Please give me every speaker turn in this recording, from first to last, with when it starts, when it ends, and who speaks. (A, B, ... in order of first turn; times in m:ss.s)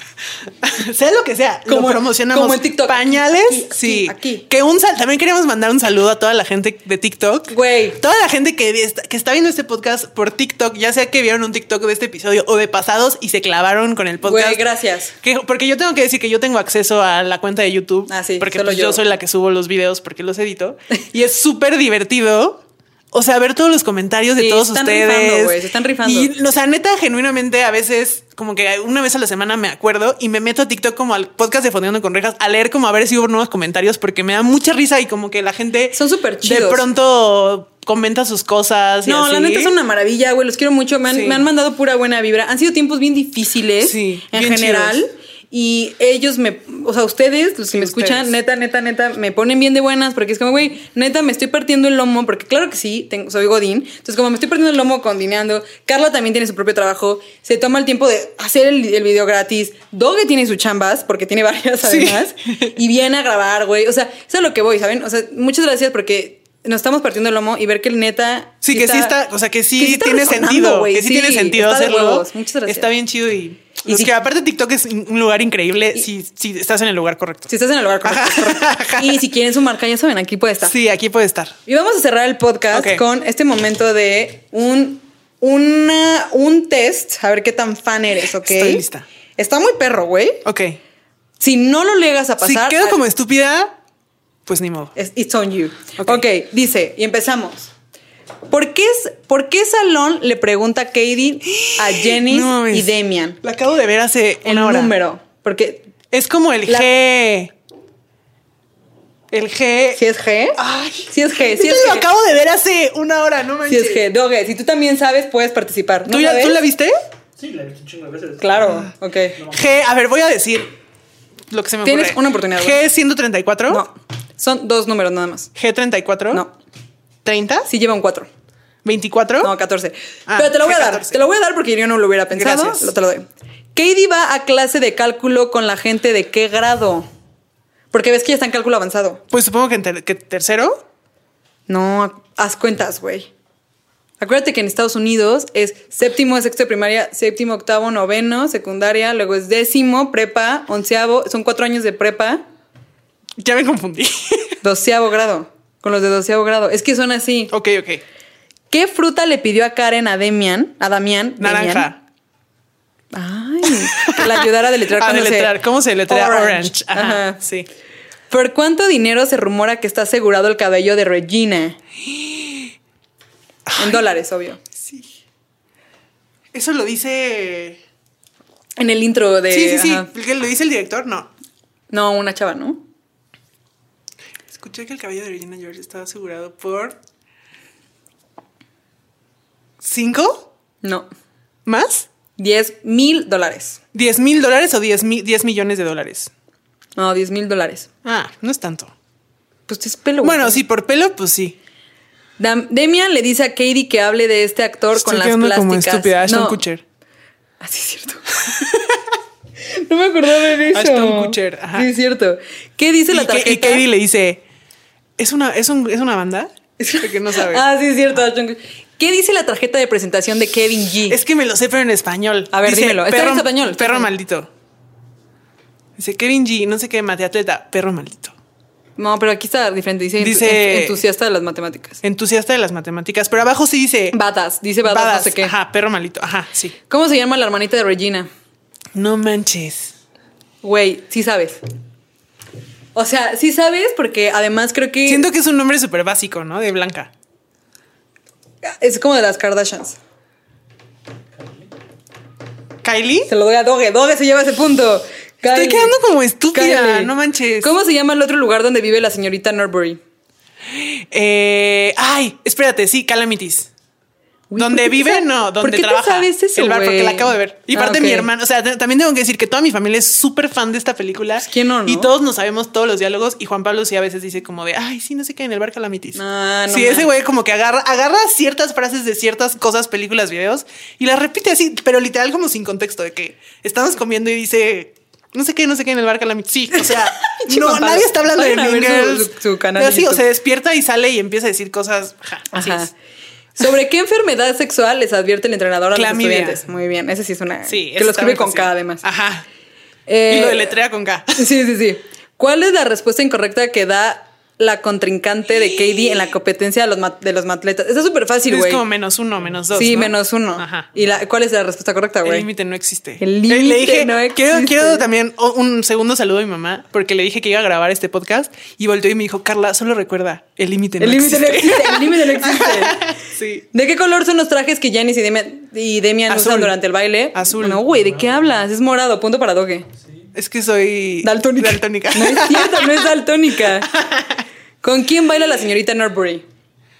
0:00.6-0:14.6 A
0:01.7-0:04.5 B
0:07.5-0:08.0 B
0:14.2-0:15.2 B
0:15.2-0:39.7 A
0:18.1-0:19.0 B
0:24.4-0:26.3 B
0:35.9-0:36.8 B
0:39.0-1:09.2 B
0:41.1-0:41.5 A
0:43.8-0:45.0 A
0:47.7-0:48.3 A
1:01.8-1:02.7 A
1:08.6-1:17.5 A
1:09.8-1:12.9 B
1:13.8-1:14.1 B
1:17.5-1:20.7 B
1:18.0-1:19.2 A
1:20.6-1:21.6 A
1:21.7-1:28.8 B
1:22.7-1:23.0 A
1:28.4-1:29.0 A
1:29.4-1:30.5 B
1:30.4-1:30.8 A
1:31.4-1:33.0 B
1:32.4-1:33.8 A
1:34.5-1:35.0 A
1:35.0-1:37.7 B
1:38.5-1:43.4 B
1:41.5-1:44.9 A
1:44.4-1:45.9 B
1:46.1-1:47.5 A
1:49.3-1:50.0 A
1:50.0-1:52.1 B
1:50.6-1:54.0 A
1:53.7-1:56.6 B
1:56.1-1:57.0 A
1:57.4-1:59.8 C
1:58.4-1:59.4 B
1:59.5-2:00.7 A
2:01.5-2:03.8 A
2:01.8-2:02.8 B
2:03.7-2:05.5 B
2:05.6-2:06.4 A
2:07.2-2:07.7 A
2:07.7-2:08.3 B
2:08.8-2:09.5 A
2:09.4-2:17.1 B
2:10.3-2:11.2 A
2:12.3-2:12.9 A
2:17.9-2:19.2 B
2:19.3-2:20.8 A
2:21.7-2:23.3 B
2:24.2-2:32.4 B
2:33.4-2:34.6 A
2:34.6-2:37.5 B
2:37.5-2:38.0 A
2:38.7-2:41.9 B
2:41.4-2:42.0 A
2:43.1-2:47.4 B
2:43.7-2:47.7 A
2:48.3-2:51.8 B
2:52.0-2:52.8 A
2:53.7-2:54.0 A
2:53.8-2:54.6 B
2:54.8-2:55.1 A
2:56.5-2:57.8 A
2:58.8-3:00.1 B
2:59.5-3:01.3 A
3:01.9-3:02.8 B
3:04.5-3:07.0 A
3:09.8-3:10.5 A
3:11.7-3:12.1 A
3:12.4-3:13.8 B
3:13.9-3:16.3 A
3:17.0-3:17.9 B
3:18.0-3:18.9 A
3:19.7-3:20.6 B
3:20.2-3:21.6 A
3:22.4-3:26.6 B
3:25.0-3:26.8 A
3:27.6-3:28.9 B
3:29.7-3:33.8 B
3:30.7-3:31.9 A
3:33.1-3:34.4 A
3:35.2-3:37.6 A
3:36.8-3:41.2 B
3:41.1-3:44.5 A
3:42.5-3:44.1 B
3:46.0-3:48.4 A
3:49.0-3:52.0 B
3:50.2-3:51.0 A
3:52.0-3:54.2 A
3:54.1-3:55.5 B
3:54.8-3:56.8 A
3:56.9-3:58.3 B
3:59.0-3:59.9 A
4:00.6-4:01.6 B
4:03.0-4:05.3 B
4:05.1-4:07.1 A
4:08.6-4:10.0 B
4:12.8-4:13.3 A
4:13.3-4:16.0 B
4:15.5-4:17.7 A
4:16.5-4:20.0 B
4:20.7-4:23.7 A
4:24.5-4:28.3 B
4:24.6-4:52.9 A
4:31.4-4:32.1 B
4:36.2-4:37.1 B
4:46.7-4:50.2 B
4:52.5-4:52.9 B
4:53.6-4:59.0 B
4:55.9-4:56.6 A
4:57.7-4:59.4 A
5:00.1-5:00.7 B
5:00.3-5:01.5 A
5:01.4-5:08.8 B
5:08.5-5:10.9 A
5:09.7-5:12.5 B
5:12.2-5:23.6 A
5:13.2-5:15.0 B
5:21.0-5:23.1 B
5:23.7-5:29.9 B
5:26.3-5:26.8 A
5:27.3-5:27.8 A
5:30.3-5:33.1 A
5:31.2-5:33.9 B
5:33.9-5:34.4 A
5:34.8-5:36.4 B